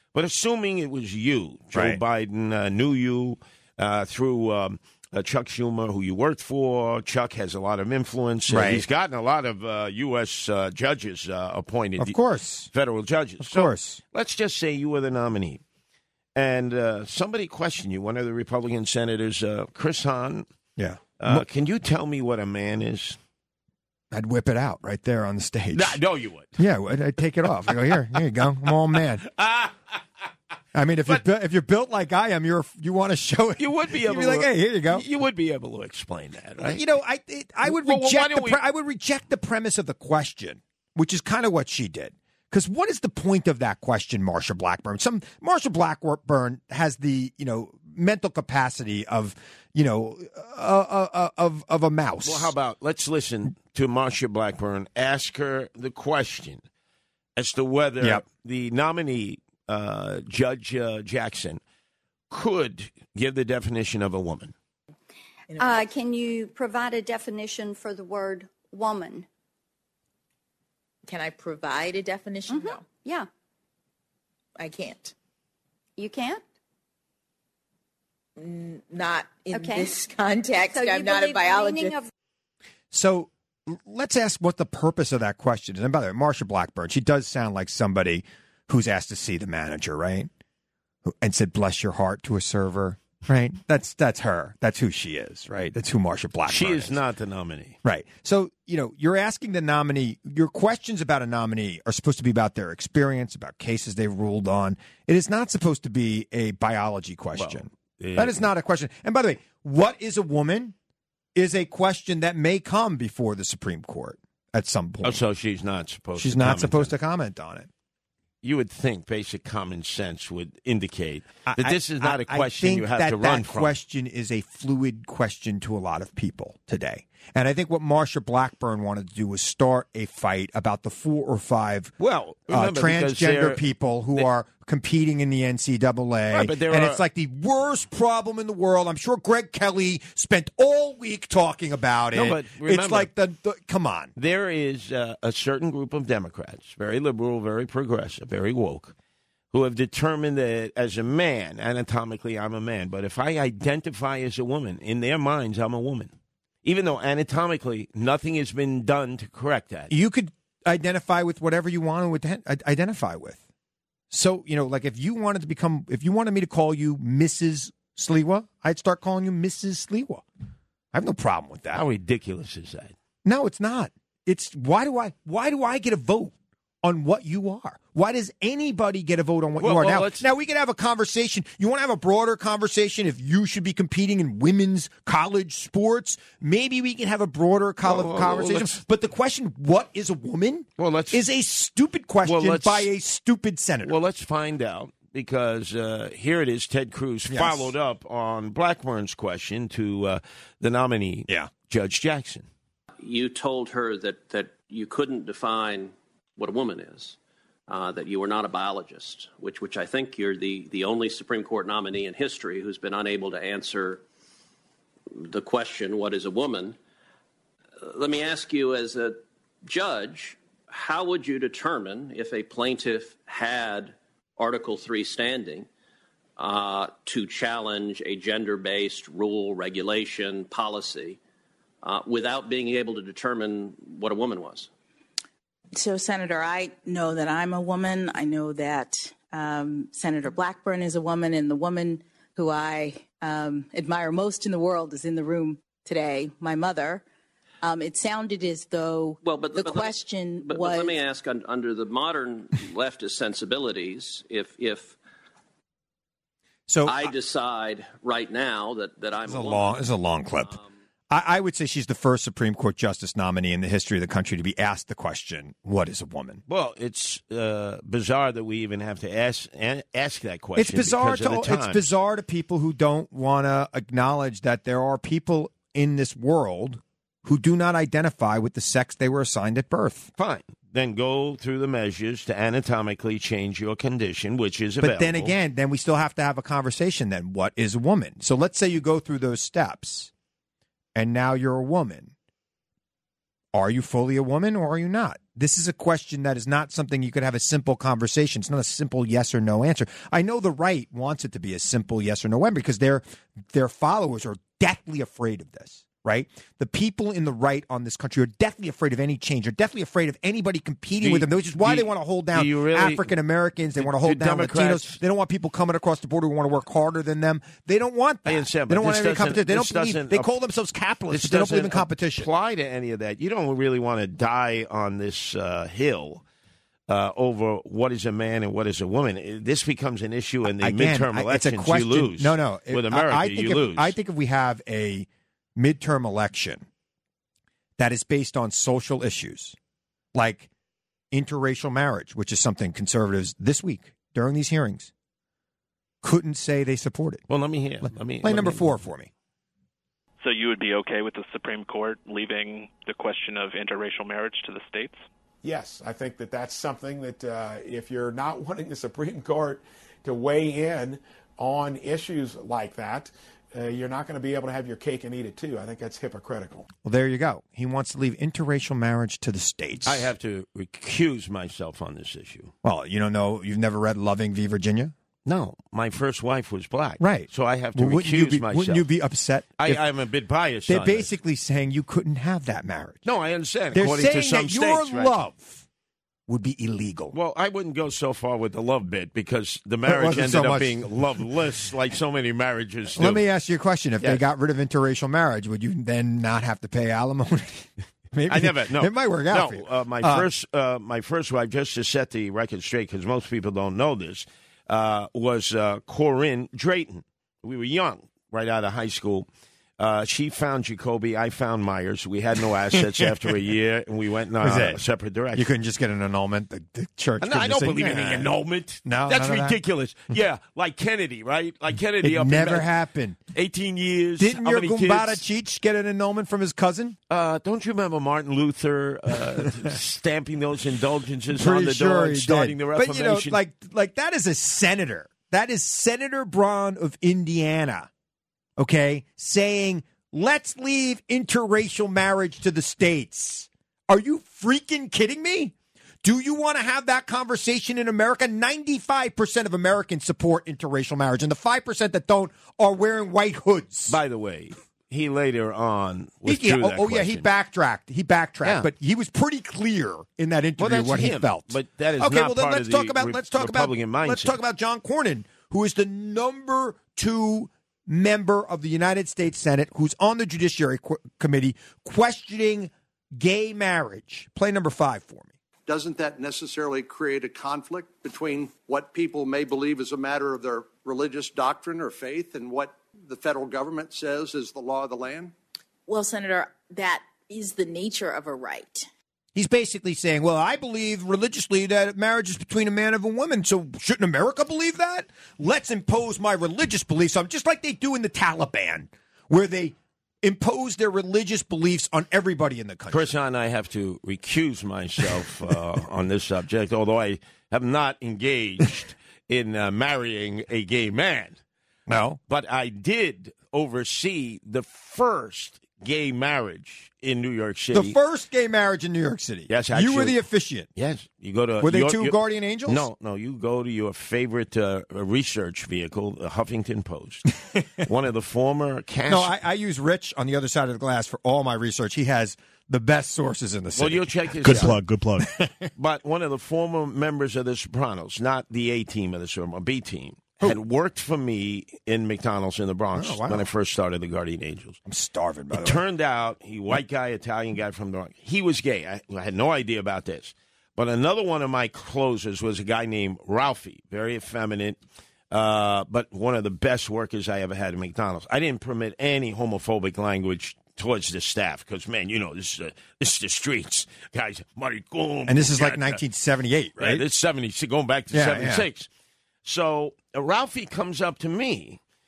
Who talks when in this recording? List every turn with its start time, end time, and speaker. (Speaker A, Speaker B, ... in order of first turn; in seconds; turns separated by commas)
Speaker A: 0.1-12.2, Speaker B: 1.7-2.0, Speaker B: 8.5-8.8, Speaker B: 12.0-12.7, Speaker A: 12.7-15.6, Speaker B: 13.4-14.0, Speaker A: 16.4-20.5, Speaker B: 20.8-21.4, Speaker A: 21.2-23.2, Speaker B: 24.1-26.0, Speaker A: 25.7-26.6, Speaker B: 26.6-29.3, Speaker A: 29.2-30.0, Speaker B: 30.7-35.0, Speaker A: 33.6-36.8, Speaker B: 36.6-52.5, Speaker A: 37.6-38.6, Speaker A: 52.2-56.6, Speaker A: 57.4-61.6, Speaker A: 62.3-64.5, Speaker C: 65.5-66.0, Speaker D: 65.6-69.3, Speaker C: 71.1-72.9, Speaker D: 72.5-73.3, Speaker C: 74.6-75.1, Speaker D: 76.0-76.4, Speaker C: 78.4-82.0, Speaker D: 79.5-80.0, Speaker D: 80.5-82.1, Speaker B: 82.9-90.3, Speaker B: 91.0-97.0, Speaker A: 96.5-97.8, Speaker B: 97.8-110.8, Speaker A: 107.4-108.5, Speaker B: 111.3-115.2, Speaker A: 115.0-116.9, Speaker B: 116.2-117.7, Speaker A: 118.4-123.7, Speaker B: 121.5-131.9, Speaker A: 132.0-134.2, Speaker B: 132.5-144.1, Speaker A: 136.3-137.0, Speaker A: 142.1-143.1, Speaker A: 144.2-148.9, Speaker A: 149.5-156.1, Speaker A: 156.6-159.9, Speaker B: 159.9-163.4, Speaker B: 164.1-170.2, Speaker B: 170.9-171.8, Speaker A: 171.7-172.9, Speaker B: 173.2-193.9, Speaker A: 179.6-180.3, Speaker A: 187.8-188.8, Speaker A: 190.8-191.2, Speaker A: 192.2-192.9, Speaker A: 193.8-202.5, Speaker B: 197.3-197.7, Speaker E: 203.0-207.2, Speaker E: 207.7-214.0, Speaker E: 215.1-216.8, Speaker E: 217.8-225.7, Speaker E: 226.4-231.2, Speaker E: 231.8-234.7, Speaker F: 235.8-247.0, Speaker F: 247.6-251.0, Speaker E: 249.2-255.0, Speaker B: 256.7-257.1, Speaker E: 256.9-259.9, Speaker B: 259.2-260.6, Speaker E: 260.4-260.7, Speaker B: 261.1-266.4, Speaker A: 266.5-271.9, Speaker B: 270.6-280.1, Speaker A: 280.2-285.4, Speaker B: 284.8-290.1, Speaker B: 290.9-292.1, Speaker B: 293.5-322.3, Speaker A: 311.0-313.1, Speaker A: 313.8-315.0, Speaker A: 318.3-320.3, Speaker A: 321.1-326.2, Speaker A: 326.9-333.9, Speaker B: 330.5-336.6, Speaker B: 337.8-339.6, Speaker B: 340.1-340.5, Speaker B: 341.1-344.9, Speaker B: 346.0-347.2, Speaker A: 347.3-348.7, Speaker B: 348.2-349.1, Speaker G: 350.2-355.0, Speaker H: 355.4-366.7, Speaker B: 366.8-370.1, Speaker A: 369.9-372.5, Speaker B: 372.6-374.9, Speaker A: 375.2-378.9, Speaker B: 377.0-379.8, Speaker A: 379.6-381.1, Speaker B: 380.7-383.1, Speaker A: 383.1-385.2, Speaker B: 383.7-385.6, Speaker B: 386.3-387.1, Speaker A: 387.1-393.2, Speaker B: 389.9-391.2, Speaker B: 393.0-400.3, Speaker A: 398.3-409.3, Speaker A: 409.8-415.5, Speaker B: 414.4-418.3, Speaker A: 417.2-422.7, Speaker B: 418.8-419.6, Speaker B: 422.0-423.2, Speaker A: 423.3-425.2, Speaker B: 424.2-427.0, Speaker A: 427.1-433.4, Speaker B: 431.3-437.9, Speaker B: 438.6-454.0, Speaker A: 453.9-457.3, Speaker B: 456.2-475.3, Speaker A: 458.4-458.7, Speaker A: 460.6-464.4, Speaker I: 475.7-485.3, Speaker F: 485.9-488.9, Speaker B: 489.4-503.1, Speaker A: 502.9-511.4, Speaker B: 511.9-512.2, Speaker A: 512.3-518.0, Speaker B: 517.7-520.7, Speaker A: 519.5-520.2, Speaker A: 520.8-529.3, Speaker B: 521.6-522.9, Speaker B: 529.1-535.7, Speaker A: 533.8-534.8, Speaker A: 535.8-544.8, Speaker B: 542.9-543.5, Speaker B: 544.9-545.8, Speaker A: 545.5-554.8, Speaker A: 555.3-566.0, Speaker B: 565.3-567.0, Speaker A: 566.8-568.9, Speaker B: 568.1-568.7, Speaker A: 569.5-571.8